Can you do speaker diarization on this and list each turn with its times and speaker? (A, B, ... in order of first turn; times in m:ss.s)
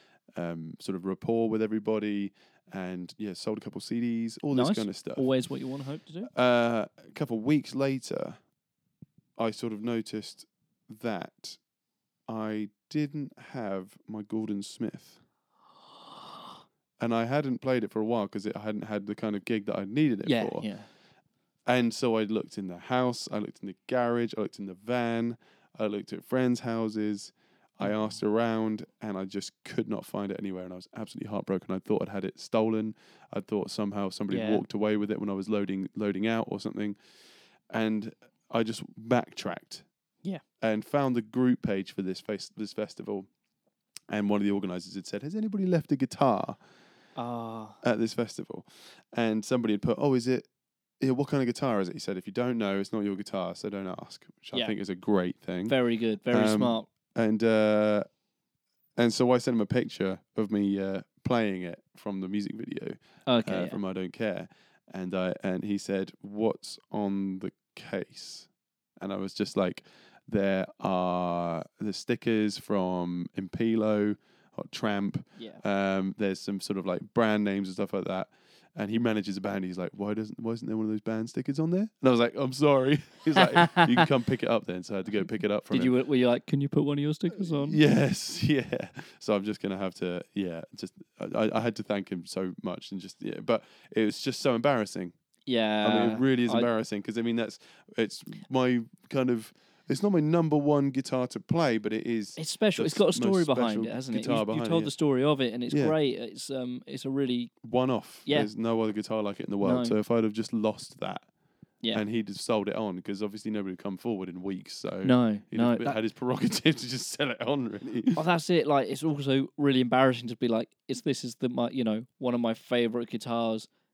0:00.3-0:05.3 A
0:04.5-0:06.3 B
0:06.3-0:08.4 A
0:09.4-0:11.6 A
0:12.3-0:15.2 A
0:17.0-0:20.7 A
0:20.2-0:20.9 B
0:21.7-0:37.0 A
0:27.8-0:28.1 B
0:34.3-0:34.6 B
0:37.7-0:39.8 A
0:40.6-0:43.3 A
0:44.1-0:46.6 A
0:47.2-0:47.8 B
0:47.8-0:50.5 A
0:51.0-0:55.8 A
0:55.7-0:56.9 B
0:56.3-0:58.1 A
0:59.0-1:08.5 A
1:03.2-1:03.8 B
1:09.0-1:25.9 A
1:23.4-1:24.0 B
1:25.7-1:27.8 B
1:27.4-1:35.1 A
1:35.4-1:36.7 B
1:35.8-1:44.9 A
1:42.4-1:47.5 B
1:45.7-1:46.0 A
1:47.6-1:51.3 A
1:49.6-1:49.9 B
1:51.9-1:58.2 A
1:55.0-1:56.0 B
1:58.1-2:03.7 B